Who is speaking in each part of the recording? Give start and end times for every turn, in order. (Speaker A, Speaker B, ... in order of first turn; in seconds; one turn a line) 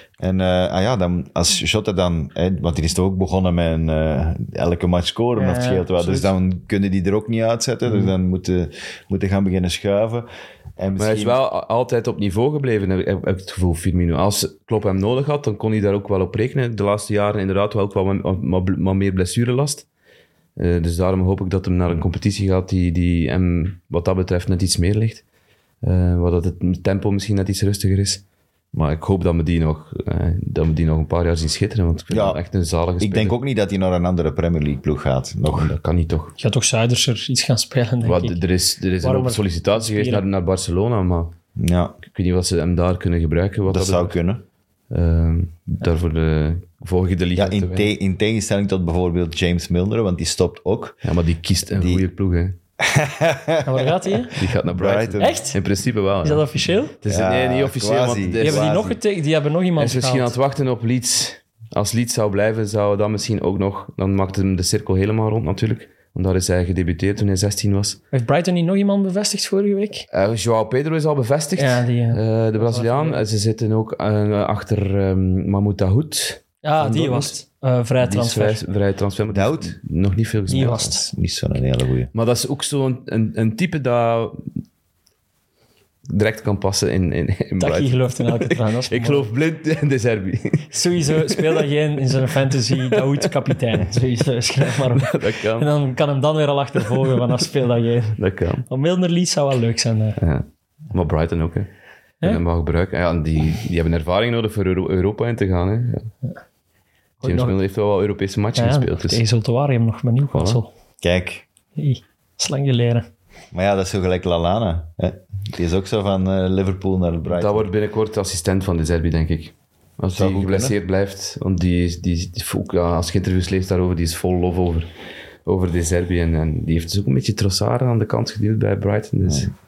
Speaker A: 0.2-10.3
Speaker B: 5.4-6.2
Speaker A: 10.8-11.4
Speaker C: 11.0-19.9
Speaker C: 20.6-25.2
Speaker C: 25.8-28.2
Speaker C: 28.7-33.4
Speaker A: 32.1-32.4
Speaker A: 33.0-35.7
Speaker C: 35.5-36.4
Speaker B: 36.4-38.4
Speaker C: 38.0-41.3
Speaker B: 39.0-40.2
Speaker A: 41.6-42.0
Speaker C: 42.1-44.2
Speaker A: 43.7-44.4
Speaker C: 44.9-47.9
Speaker A: 47.4-51.0
Speaker C: 51.0-52.6
Speaker A: 51.8-52.0
Speaker A: 52.8-54.1
Speaker B: 53.6-54.4
Speaker C: 54.3-58.9
Speaker A: 54.7-55.4
Speaker B: 55.2-55.6
Speaker B: 56.2-57.0
Speaker A: 57.1-59.0
Speaker B: 58.4-60.4
Speaker C: 59.8-68.0
Speaker B: 68.1-70.1
Speaker C: 70.1-77.3
Speaker B: 71.6-73.2
Speaker B: 76.6-78.6
Speaker C: 78.0-80.8
Speaker A: 79.3-79.8
Speaker A: 80.5-82.1
Speaker B: 80.5-81.0
Speaker C: 82.1-84.5
Speaker C: 86.1-91.6
Speaker B: 87.6-89.3
Speaker B: 90.7-100.2
Speaker C: 92.7-93.3
Speaker C: 94.8-95.7
Speaker C: 98.2-98.7
Speaker C: 100.2-101.7
Speaker C: 102.2-106.1
Speaker B: 107.2-107.6
Speaker C: 107.2-109.2
Speaker B: 108.6-110.7
Speaker C: 110.3-110.6
Speaker A: 111.0-111.5
Speaker B: 111.8-113.1
Speaker A: 113.5-117.7
Speaker C: 117.3-124.9
Speaker A: 120.1-120.8
Speaker C: 125.5-129.5